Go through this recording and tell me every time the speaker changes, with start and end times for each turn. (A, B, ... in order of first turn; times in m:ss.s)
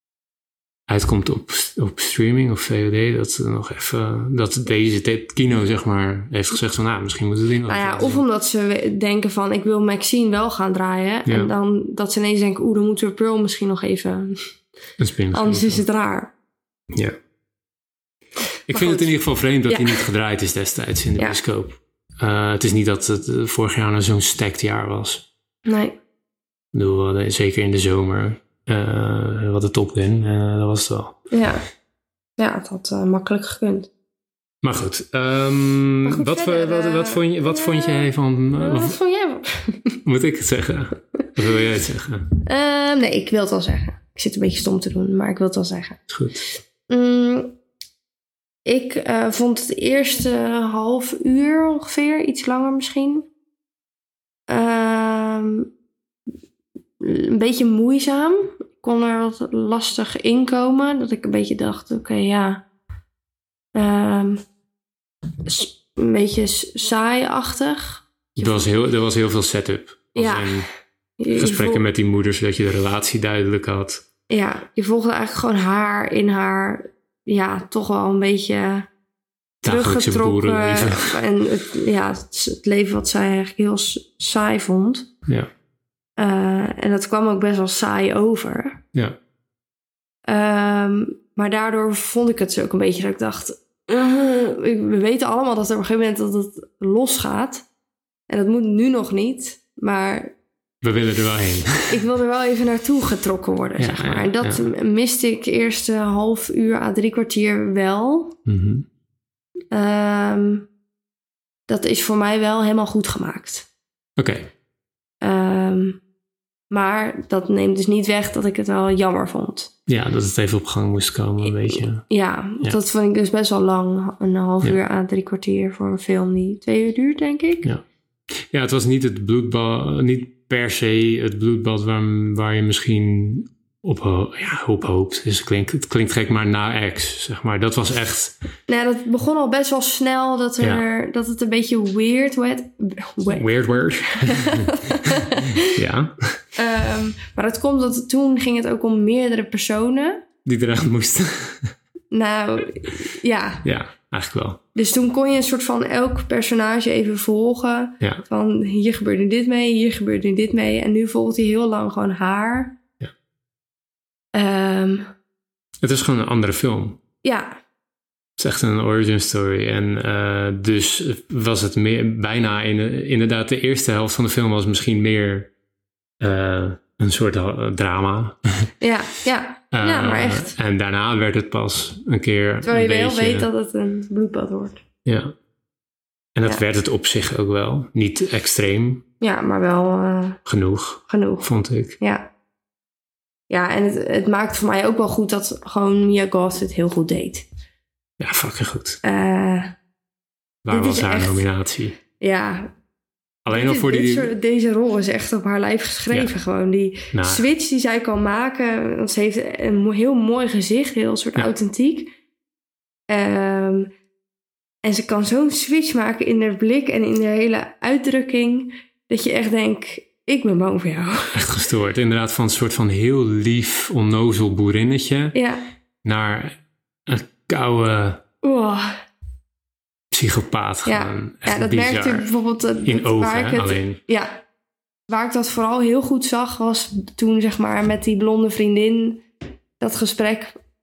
0:00.9-0:08.2 A
0:07.7-0:14.5 B
0:11.3-0:11.5 A
0:15.0-0:15.8 A
0:15.3-0:16.3 B
0:18.7-0:25.2 A
0:18.7-0:19.2 B
0:19.7-0:20.0 B
0:25.6-0:26.0 B
0:26.7-0:31.2 A
0:31.3-0:31.6 B
0:32.4-0:33.9 B
0:34.6-0:39.0 A
0:36.0-0:40.0 B
0:40.0-0:42.3 A
0:42.4-0:46.0 B
0:46.1-0:46.5 A
0:46.9-0:47.5 B
0:48.6-0:53.3 B
0:54.5-0:55.7 B
0:57.0-1:02.6 B
1:03.7-1:04.4 B
1:05.4-1:08.7 B
1:08.4-1:10.7 A
1:10.2-1:10.6 B
1:11.2-1:11.8 B
1:11.3-1:14.0 A
1:14.3-1:18.9 B
1:19.6-1:21.2 A
1:19.6-1:25.1 B
1:26.2-1:28.8 B
1:30.3-1:37.6 B
1:38.3-1:40.3 B
1:40.8-1:42.0 A
1:41.9-1:48.4 B
1:43.8-1:44.7 A
1:48.5-1:48.9 A
1:49.7-1:50.7 B
1:51.7-1:53.7 B
1:54.2-1:54.5 A
1:55.2-1:56.0 B
1:56.7-1:59.7 B
1:59.9-2:02.1 A
2:02.1-2:07.7 B
2:08.4-2:18.4 A
2:18.7-2:23.5 B
2:23.3-2:26.4 A
2:24.1-2:25.7 B
2:26.6-2:30.2 B
2:30.4-2:31.7 A
2:32.1-2:33.6 B
2:33.6-2:34.6 A
2:34.8-2:42.8 B
2:44.3-2:45.1 B
2:45.8-2:47.0 A
2:47.2-2:47.6 B
2:48.4-2:55.5 A
2:56.2-2:58.7 A
2:58.8-3:00.5 B
2:59.7-3:03.5 A
3:02.6-3:04.8 B
3:05.0-3:05.3 A
3:06.4-3:09.0 A
3:09.2-3:10.4 B
3:10.4-3:12.0 A
3:11.1-3:11.5 B
3:12.0-3:12.3 B
3:13.5-3:17.5 B
3:18.2-3:19.0 A
3:19.0-3:19.8 B
3:20.6-3:22.0 A
3:20.7-3:21.4 B
3:22.2-3:22.7 B
3:23.4-3:24.3 A
3:23.5-3:32.1 B
3:27.1-3:27.5 A
3:33.1-3:33.9 B
3:34.8-3:41.4 B
3:41.3-3:45.4 A
3:45.3-3:45.6 B
3:46.0-3:48.2 A
3:48.4-3:48.9 B
3:50.1-3:52.3 A
3:50.8-3:54.4 B
3:52.8-3:54.0 A
3:55.1-3:59.2 B
3:59.8-4:00.6 B